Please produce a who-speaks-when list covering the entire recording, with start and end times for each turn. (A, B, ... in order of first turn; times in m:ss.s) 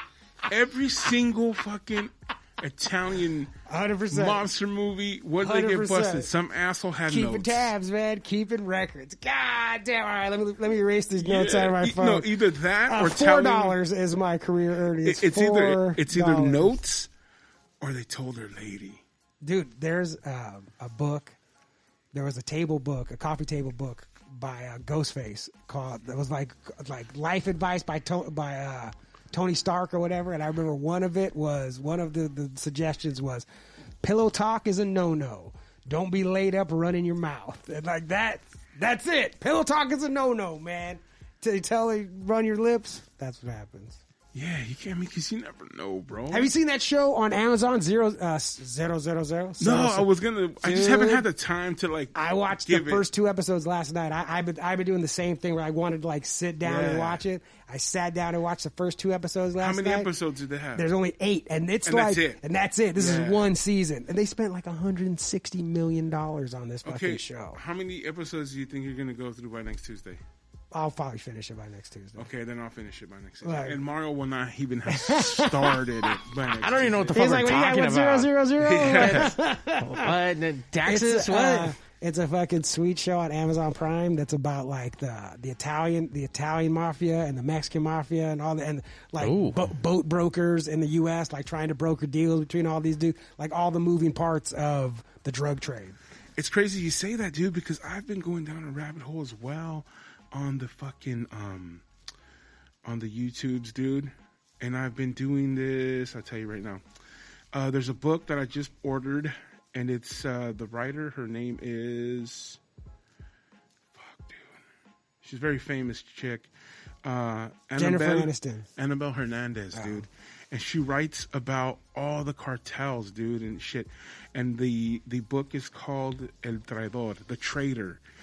0:00.5-0:03.5 A
0:03.7-0:04.4 B
0:04.1-0:07.7 A
0:05.4-0:06.3 B
0:07.1-0:16.8 B
0:11.2-0:13.8 A
0:15.0-0:17.1 A
0:17.8-0:19.0 A
0:19.4-0:21.4 B
0:22.1-0:33.5 B
0:34.0-0:44.0 B
0:44.3-0:46.5 A
0:46.3-0:50.1 B
0:49.6-0:53.1 A
0:50.6-0:51.2 B
0:52.1-1:00.1 B
0:56.6-0:57.2 A
0:59.6-1:00.9 A
1:00.7-1:07.6 B
1:01.8-1:02.4 A
1:03.0-1:03.5 A
1:06.8-1:10.2 A
1:10.7-1:12.3 B
1:12.2-1:17.4 A
1:13.4-1:13.8 B
1:14.9-1:16.2 B
1:16.6-1:21.7 C
1:17.1-1:20.1 B
1:18.6-1:19.4 A
1:20.8-1:36.0 B
1:29.2-1:29.7 C
1:36.4-1:41.8 A
1:42.8-1:46.8 A
1:47.5-1:52.6 A
1:53.9-1:54.5 A
1:55.2-1:56.5 A
1:57.0-2:08.0 A
1:57.8-1:58.7 B
1:59.7-2:00.0 B